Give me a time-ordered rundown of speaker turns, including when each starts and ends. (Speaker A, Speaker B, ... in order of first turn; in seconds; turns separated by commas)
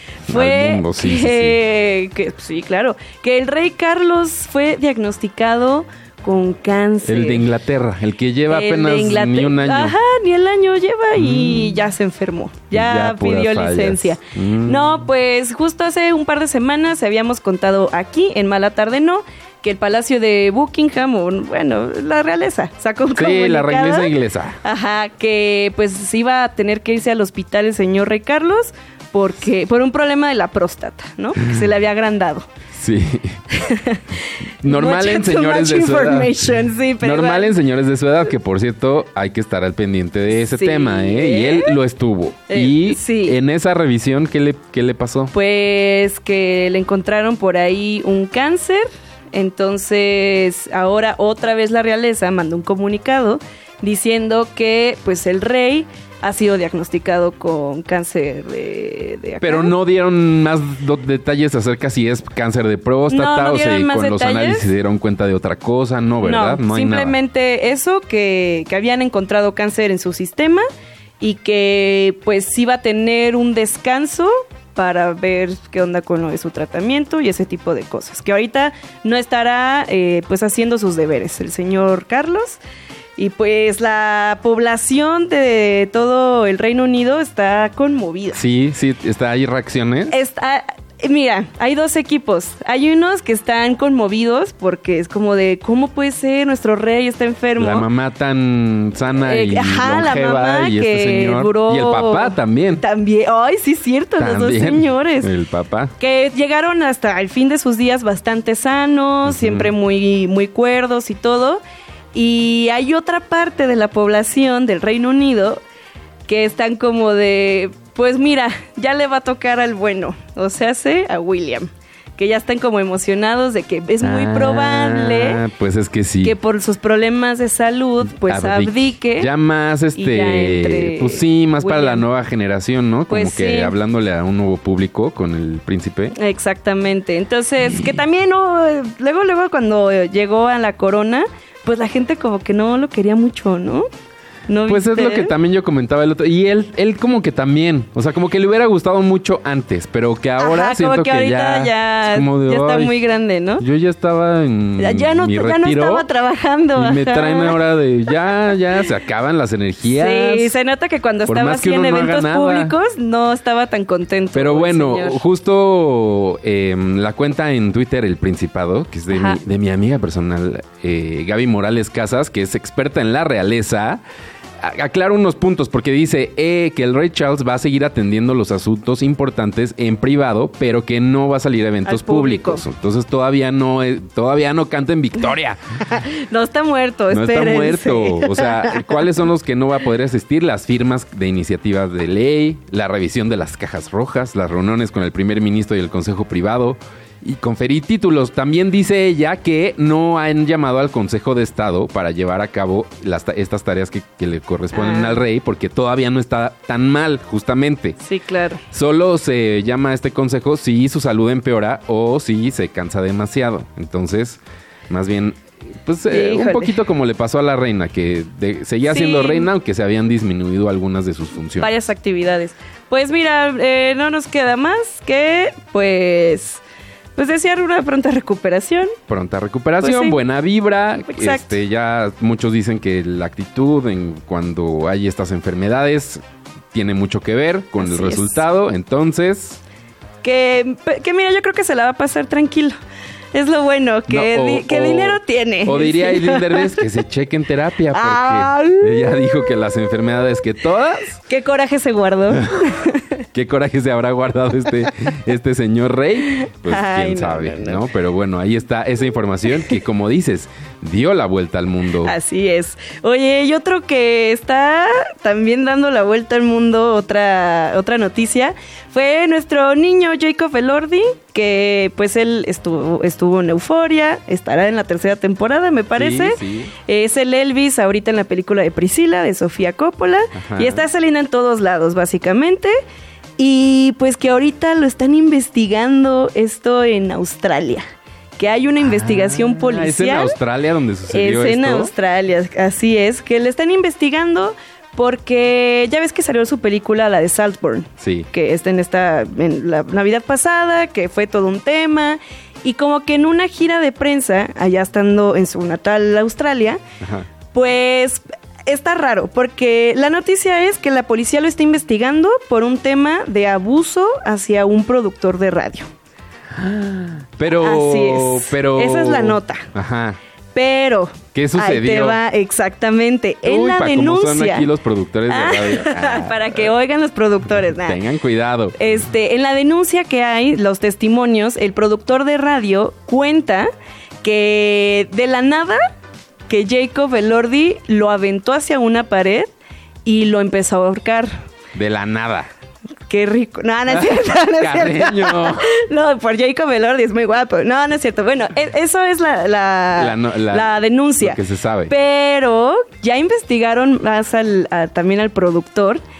Speaker A: 0.3-1.6, Speaker B: 0.3-7.5, Speaker A: 7.0-9.9, Speaker B: 8.5-32.5, Speaker A: 11.1-11.8, Speaker A: 12.7-15.0, Speaker A: 23.1-24.6, Speaker A: 32.7-33.4, Speaker B: 33.5-37.5, Speaker A: 34.6-36.5, Speaker A: 37.0-45.3, Speaker B: 40.3-41.7, Speaker B: 42.5-43.4, Speaker B: 45.3-59.7, Speaker A: 59.4-67.2, Speaker B: 63.1-64.7, Speaker B: 66.2-70.7, Speaker B: 71.2-82.6, Speaker B: 83.2-88.4, Speaker A: 88.3-90.2, Speaker B: 90.1-97.9, Speaker A: 97.6-102.8, Speaker B: 99.2-105.3, Speaker A: 104.2-105.9, Speaker B: 106.0-111.6, Speaker A: 109.2-109.7, Speaker B: 112.1-115.6, Speaker B: 116.3-125.4, Speaker A: 124.0-126.3, Speaker B: 126.2-129.3, Speaker A: 128.2-136.1, Speaker B: 129.9-132.1, Speaker B: 133.1-133.7, Speaker B: 136.1-143.9, Speaker B: 144.5-145.3, Speaker A: 144.7-153.0, Speaker B: 150.4-153.6, Speaker A: 153.6-156.0, Speaker B: 154.8-157.6, Speaker A: 156.7-160.5, Speaker B: 159.9-165.2, Speaker A: 161.3-162.7, Speaker A: 164.3-174.0, Speaker B: 169.1-169.4, Speaker A: 174.6-185.6, Speaker B: 181.8-182.6, Speaker B: 185.9-188.8, Speaker A: 187.1-208.0, Speaker B: 204.7-205.2, Speaker B: 208.0-208.6, Speaker A: 208.7-221.7, Speaker B: 216.1-216.8, Speaker B: 218.8-219.5, Speaker B: 221.6-226.6, Speaker B: 227.2-228.9, Speaker A: 229.1-236.2, Speaker B: 229.8-230.2, Speaker B: 230.9-231.6, Speaker A: 236.7-239.6, Speaker B: 237.8-238.4, Speaker B: 240.2-242.8, Speaker B: 243.3-246.8, Speaker A: 244.1-251.2, Speaker B: 247.9-249.5, Speaker B: 251.3-253.1, Speaker A: 253.3-262.1, Speaker B: 256.3-257.8, Speaker B: 262.0-282.8, Speaker A: 275.9-276.7, Speaker A: 280.3-280.9, Speaker B: 283.4-287.8, Speaker B: 288.4-290.4, Speaker A: 288.8-291.9, Speaker B: 291.1-306.8, Speaker A: 298.0-298.3, Speaker A: 307.0-307.3, Speaker B: 307.5-315.9, Speaker A: 316.5-320.2, Speaker B: 317.5-319.7, Speaker B: 320.5-324.7, Speaker A: 321.3-322.2, Speaker A: 323.4-326.7, Speaker B: 325.3-328.0, Speaker A: 327.6-328.8, Speaker B: 328.8-333.7, Speaker B: 334.2-335.9, Speaker B: 336.5-339.5, Speaker B: 340.0-341.4, Speaker A: 341.7-342.5, Speaker B: 343.1-356.0, Speaker A: 343.9-345.7, Speaker A: 350.0-351.9